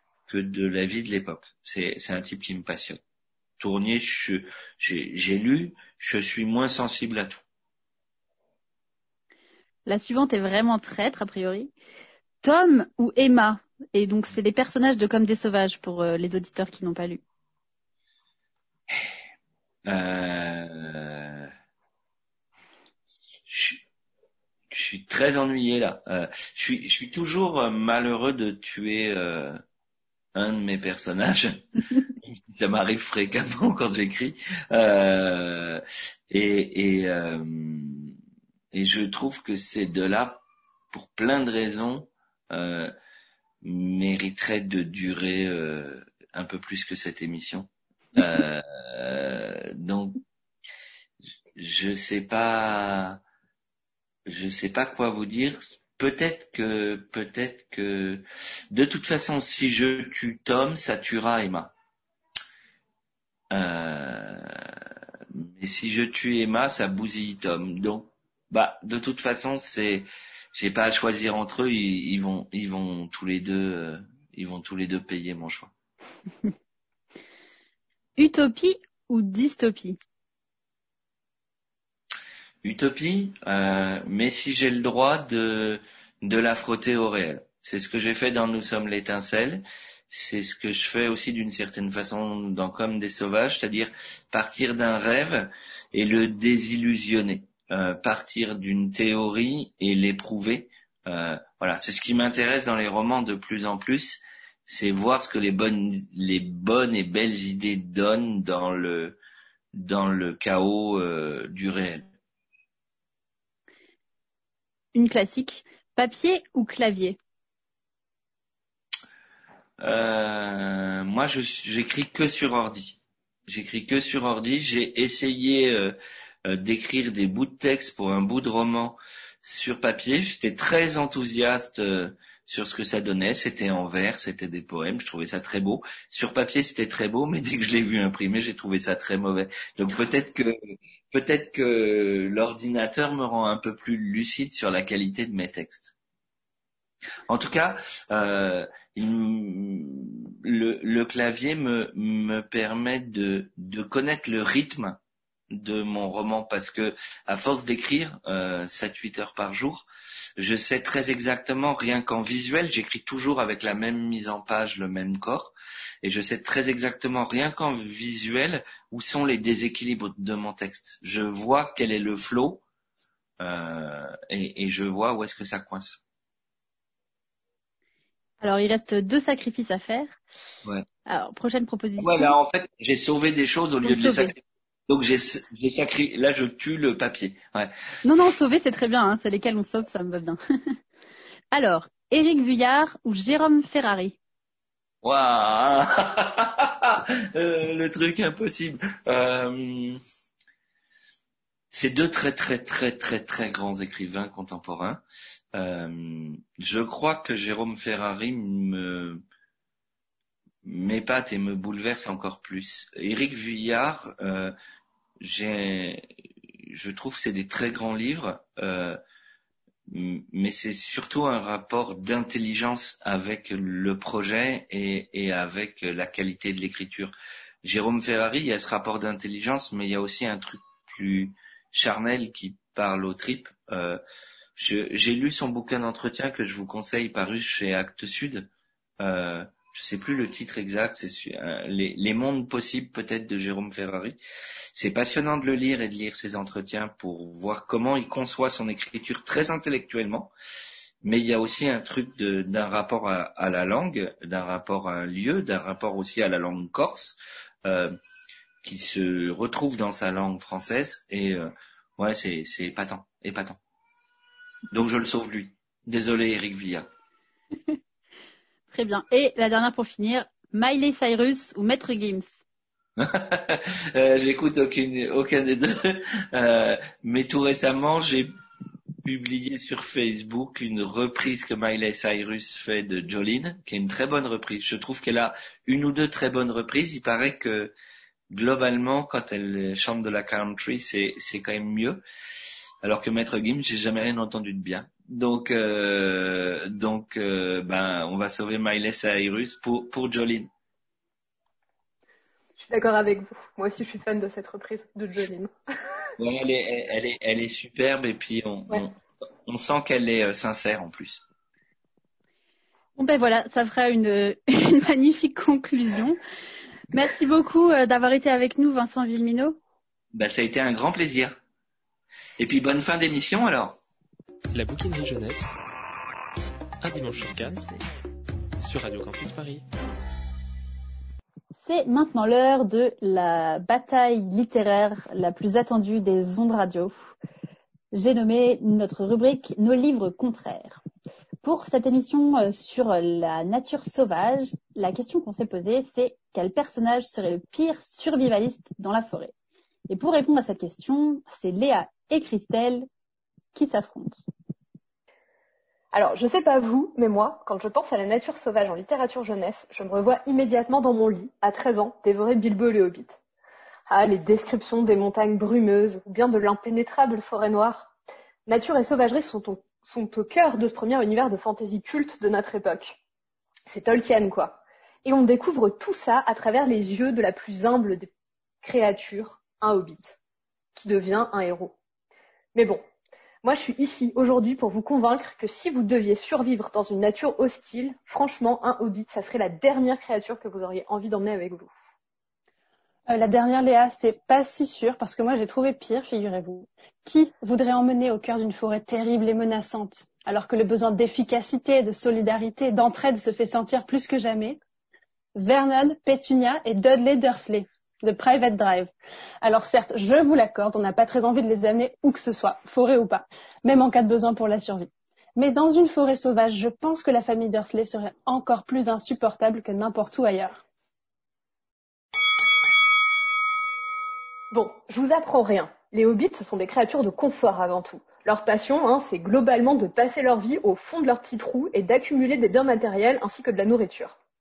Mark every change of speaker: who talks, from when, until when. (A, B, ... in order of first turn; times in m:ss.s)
0:00.3-0:03.0 A
0:03.6-0:07.4 A
0:09.9-0:11.7 B
0:12.4-0:17.2 B
0:19.8-0:21.5 A
0:23.5-0:23.8 A
0:24.7-0:29.6 A
0:30.3-0:31.6 A
0:32.2-0:38.1 A
0:38.7-0:42.9 A
0:43.6-0:50.2 A
0:51.6-0:53.2 A
0:54.3-1:01.7 A
1:03.5-1:04.7 A
1:05.3-1:15.7 A
1:18.2-1:20.0 B
1:22.6-1:49.2 A
1:49.7-1:52.0 A
1:54.9-1:57.2 B
1:59.8-2:25.9 A
2:27.3-2:35.0 A
2:35.5-2:52.6 A
2:53.4-2:56.0 A
2:58.4-3:00.2 B
3:01.1-3:02.3 B
3:02.0-3:04.3 A
3:03.8-3:04.3 B
3:04.9-3:07.7 A
3:08.0-3:10.8 B
3:11.5-3:14.2 B
3:15.0-3:20.0 A
3:21.7-3:25.0 A
3:25.5-3:29.2 A
3:30.6-3:34.6 A
3:35.2-3:36.0 A
3:36.7-3:39.0 A
3:39.9-3:54.0 A
3:54.6-3:58.5 A
3:59.0-4:04.2 A
4:04.7-4:10.3 A
4:11.0-4:18.0 A
4:18.6-4:23.6 A
4:24.7-4:26.9 A
4:28.7-4:32.4 B
4:33.0-4:38.3 A
4:39.0-4:47.7 A
4:48.3-4:52.0 A
4:52.8-5:00.5 A
5:02.6-5:05.5 C
5:06.2-5:08.9 A
5:09.5-5:11.2 A
5:13.0-5:16.2 B
5:16.9-5:19.6 B
5:20.1-5:21.4 A
5:22.4-5:23.8 A
5:24.5-5:25.6 D
5:26.8-5:27.7 D
5:28.6-5:29.6 D
5:31.6-5:37.2 B
5:37.9-5:40.8 B
5:41.4-5:49.3 B
5:49.9-5:52.9 B
5:53.5-5:54.2 B
5:55.9-6:03.2 C
6:03.9-6:07.9 C
6:08.5-6:13.0 C
6:13.7-6:18.1 C
6:18.6-6:20.2 C
6:20.8-6:21.8 C
6:22.5-6:22.8 C
6:23.4-6:31.7 C
6:33.1-6:44.6 E
6:45.4-6:48.9 E
6:49.4-7:00.6 E
7:04.5-7:14.2 C